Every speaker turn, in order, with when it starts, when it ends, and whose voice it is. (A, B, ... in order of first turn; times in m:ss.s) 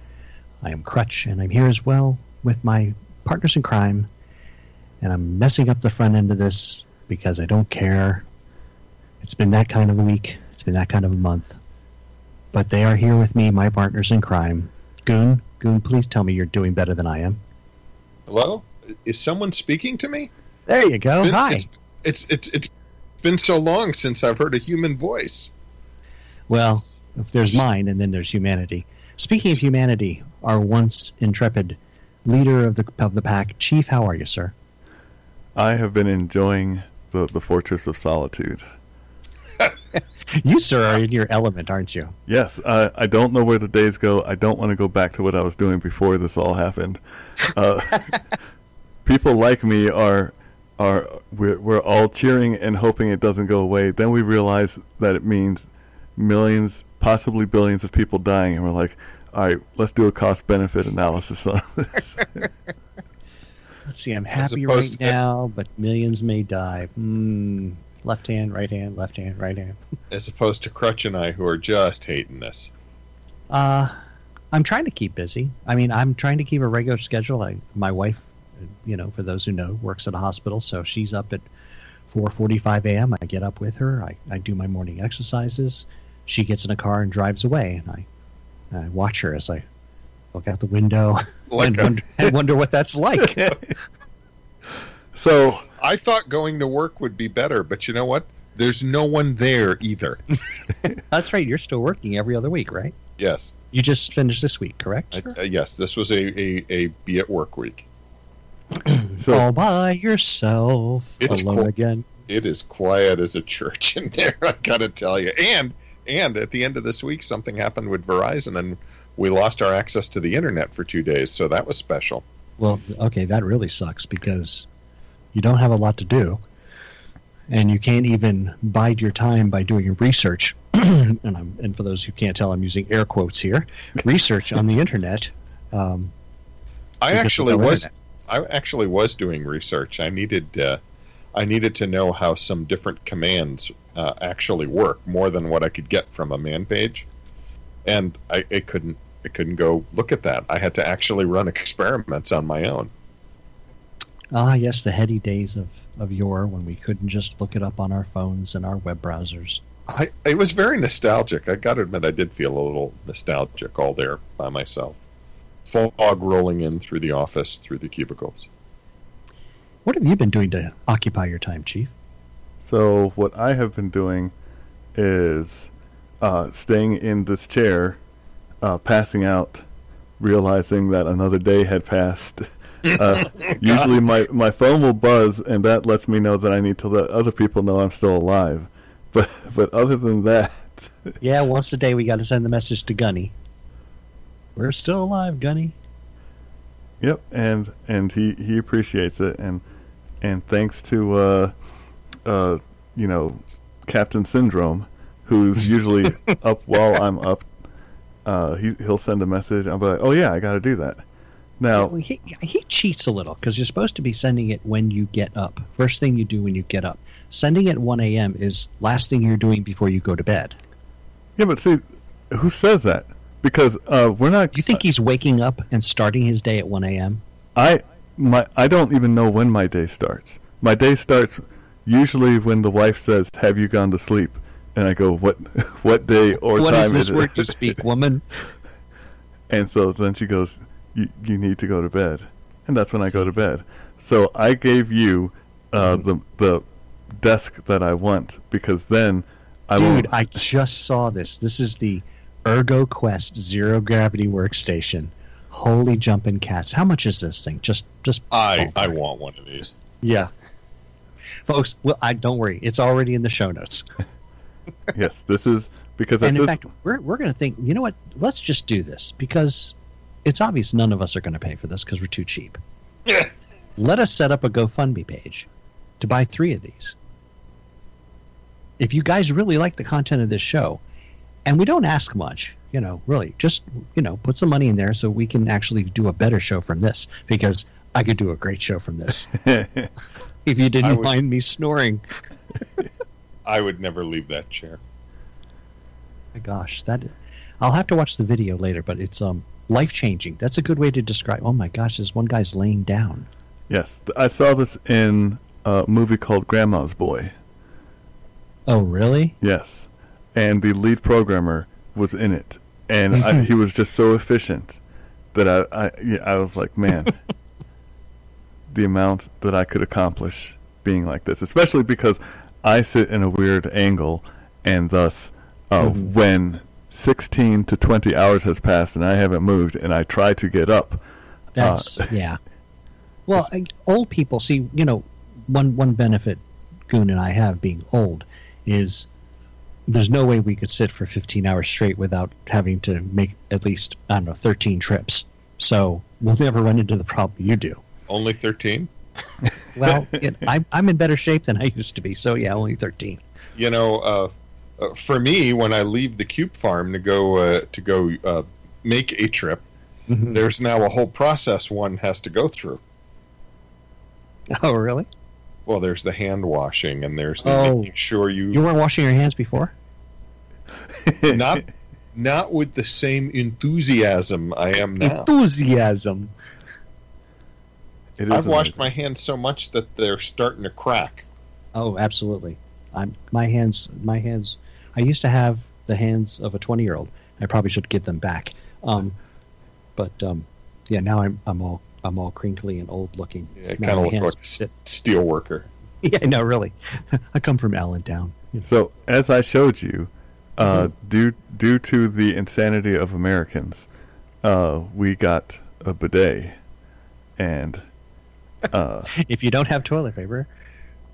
0:00.6-0:04.1 A
0:05.0-0:08.3 A
0:09.2-0:11.6 A
0:12.5-0:17.4 A
0:18.3-0:20.3 B
0:20.7-0:21.7 A
0:21.2-0:22.7 B
0:23.2-0:25.5 B
0:26.5-0:34.5 A
0:35.6-0:38.6 C
0:40.3-0:42.1 A
0:42.3-0:48.2 C
0:49.0-1:02.5 C
1:03.9-1:09.8 A
1:04.4-1:05.2 B
1:10.1-1:12.7 B
1:13.5-1:14.0 A
1:14.5-1:18.3 A
1:18.8-1:21.4 A
1:22.1-1:28.1 A
1:28.7-1:29.7 A
1:30.3-1:33.6 A
1:31.5-1:32.2 B
1:33.3-1:33.6 C
1:35.1-1:35.7 C
1:35.8-1:40.2 B
1:40.8-1:43.0 A
1:43.2-1:43.5 B
1:43.7-1:45.4 A
1:45.1-1:47.8 B
1:48.7-1:52.1 A
1:49.2-1:49.4 C
1:51.2-1:51.7 B
1:52.3-2:02.2 B
2:02.6-2:04.7 A
2:05.3-2:06.4 A
2:07.5-2:16.1 A
2:17.0-2:20.8 B
2:17.1-2:17.9 A
2:21.3-2:27.1 B
2:27.8-2:32.9 B
2:34.3-2:39.6 A
2:39.9-2:45.0 B
2:45.6-2:48.5 B
2:49.8-2:51.9 A
2:52.6-2:54.3 C
2:54.9-2:55.7 C
2:56.2-2:58.0 C
2:58.6-2:59.6 C
3:00.2-3:11.2 C
3:11.2-3:13.3 A
3:14.6-3:15.8 A
3:17.0-3:19.6 C
3:20.2-3:21.5 C
3:22.2-3:27.5 C
3:28.2-3:31.0 C
3:31.6-3:31.9 C
3:31.8-3:40.6 A
3:41.4-3:44.8 C
3:44.5-3:47.2 A
3:47.6-3:57.7 C
3:56.5-3:58.2 A
3:59.5-4:10.2 C
4:09.8-4:18.9 A
4:18.3-4:19.8 B
4:20.0-4:20.3 A
4:21.4-4:23.8 A
4:24.9-4:26.6 C
4:26.2-4:32.6 A
4:33.8-4:35.5 A
4:36.0-4:37.0 A
4:38.8-4:40.8 A
4:41.4-4:49.3 A
4:49.4-4:49.9 C
4:50.4-4:52.0 A
4:50.8-4:51.1 B
4:53.4-4:54.8 B
4:56.3-5:03.3 A
5:03.7-5:07.3 C
5:08.7-5:09.4 A
5:09.4-5:14.8 C
5:15.3-5:17.1 C
5:18.7-5:31.0 C
5:25.8-5:26.1 A
5:31.6-5:32.4 A
5:31.6-5:32.1 C
5:33.3-5:39.1 A
5:39.9-5:47.8 A
5:48.1-5:48.9 B
5:49.8-5:53.2 A
5:53.6-5:59.6 B
6:00.1-6:00.4 A
6:00.3-6:02.8 B
6:04.5-6:05.1 A
6:05.7-6:08.6 B
6:07.4-6:07.9 A
6:08.5-6:09.7 A
6:10.9-6:11.6 C
6:11.3-6:15.3 B
6:15.0-6:16.3 A
6:18.2-6:18.9 C
6:18.3-6:21.2 B
6:21.8-6:29.2 A
6:30.0-6:34.7 A
6:33.6-6:35.7 B
6:36.0-6:38.6 A
6:38.6-6:43.9 C
6:40.6-6:40.9 A
6:44.4-6:46.6 C
6:47.4-6:47.8 C
6:48.7-6:49.1 C
6:49.1-6:50.5 A